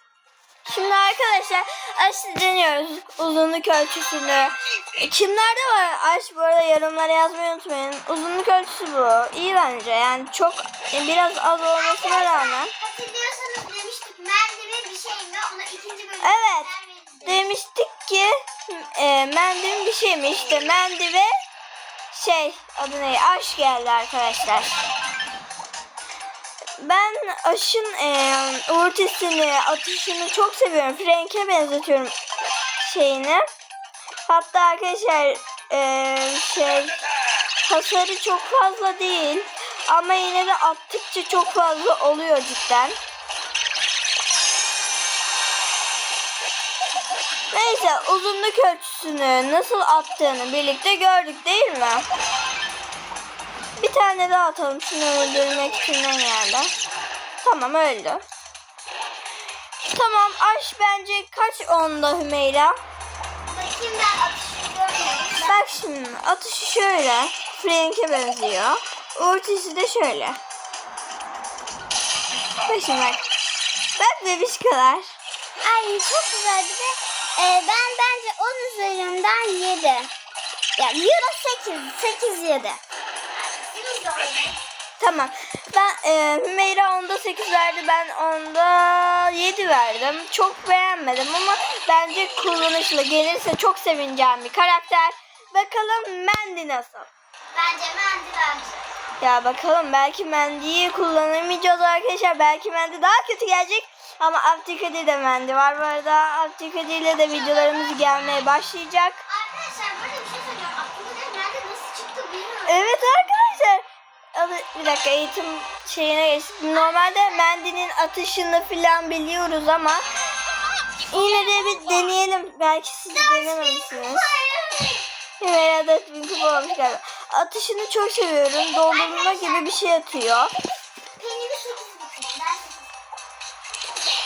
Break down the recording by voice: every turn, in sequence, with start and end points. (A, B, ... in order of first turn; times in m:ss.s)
0:00.6-0:12.7 A
0:11.8-0:17.4 B
0:16.2-0:16.7 A
0:17.2-0:21.3 A
0:22.1-0:24.8 A
0:26.8-0:32.1 A
0:32.8-0:33.4 A
0:34.3-0:37.0 A
0:37.6-0:43.0 A
0:47.5-0:52.0 A
0:53.8-0:56.7 A
0:57.4-0:58.2 A
0:59.9-1:02.8 A
1:03.4-1:05.6 B
1:05.4-1:10.4 A
1:12.6-1:13.2 A
1:14.0-1:15.1 A
1:15.6-1:20.1 B
1:20.8-1:22.8 B
1:23.7-1:24.6 B
1:25.0-1:37.1 A
1:37.5-1:38.8 B
1:39.2-1:49.2 A
1:47.3-1:48.4 B
1:49.2-1:53.3 B
1:52.7-1:53.8 A
1:54.3-2:00.0 A
1:56.7-1:57.5 B
2:01.1-2:04.2 A
2:01.1-2:02.1 B
2:03.1-2:05.0 B
2:05.4-2:10.5 A
2:08.8-2:09.7 B
2:11.2-2:12.9 B